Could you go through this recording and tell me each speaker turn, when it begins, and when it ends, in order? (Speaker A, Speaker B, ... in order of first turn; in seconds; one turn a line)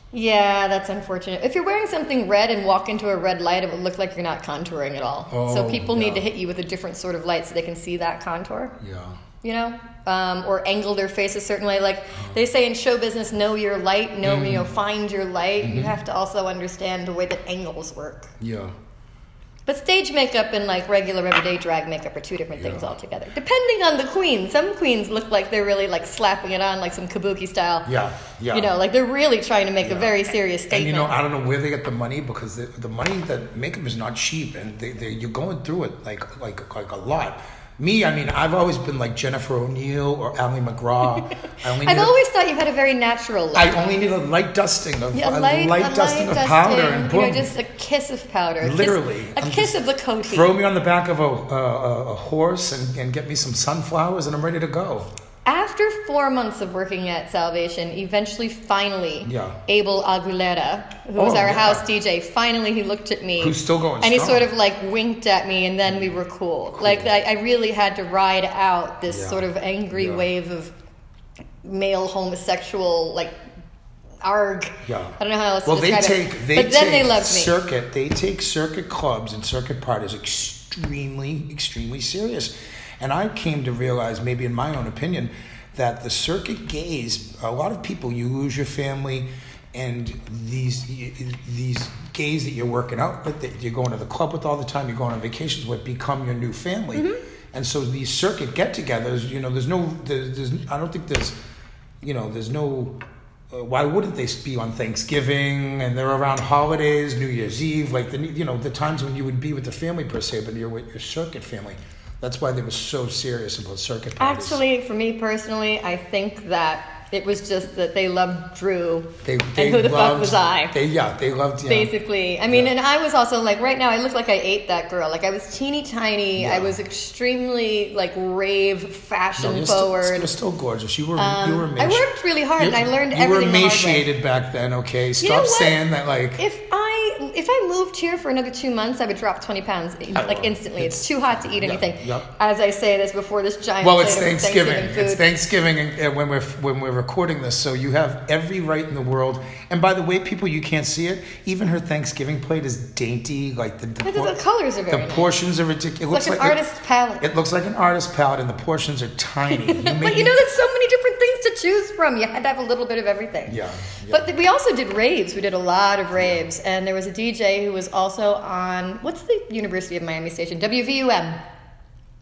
Speaker A: 0.1-8.7
Speaker B: 5.3-6.3
Speaker B: 8.8-9.2
Speaker A: 9.4-18.3
Speaker B: 14.2-14.7
Speaker B: 15.6-15.9
Speaker B: 18.4-18.7
Speaker A: 19.7-27.9
Speaker B: 22.6-22.9
Speaker B: 27.9-28.7
Speaker A: 28.5-31.2
Speaker B: 29.8-30.2
Speaker B: 30.7-42.1
Speaker A: 41.7-43.8
Speaker B: 43.5-47.5
Speaker A: 45.1-50.5
Speaker B: 48.6-55.1
Speaker A: 55.5-70.7
Speaker B: 59.2-59.6
Speaker B: 61.2-61.8
Speaker B: 63.4-64.5
Speaker B: 66.7-67.1
Speaker B: 69.1-70.3
Speaker A: 71.6-73.4
Speaker A: 74.2-77.6
Speaker B: 74.8-101.4
Speaker A: 97.0-97.2
Speaker B: 102.0-103.0
Speaker B: 103.5-114.6
Speaker A: 114.2-120.8
Speaker B: 119.2-121.9
Speaker A: 121.7-130.3
Speaker B: 122.5-122.7
Speaker B: 126.4-126.8
Speaker B: 129.4-132.1
Speaker A: 131.2-134.1
Speaker B: 132.6-136.4
Speaker A: 135.2-135.8
Speaker A: 136.4-145.3
Speaker B: 140.1-142.3
Speaker B: 143.8-154.4
Speaker A: 154.0-155.3
Speaker B: 154.9-156.6
Speaker A: 156.1-157.3
Speaker B: 157.2-160.4
Speaker A: 159.5-171.4
Speaker B: 163.5-164.3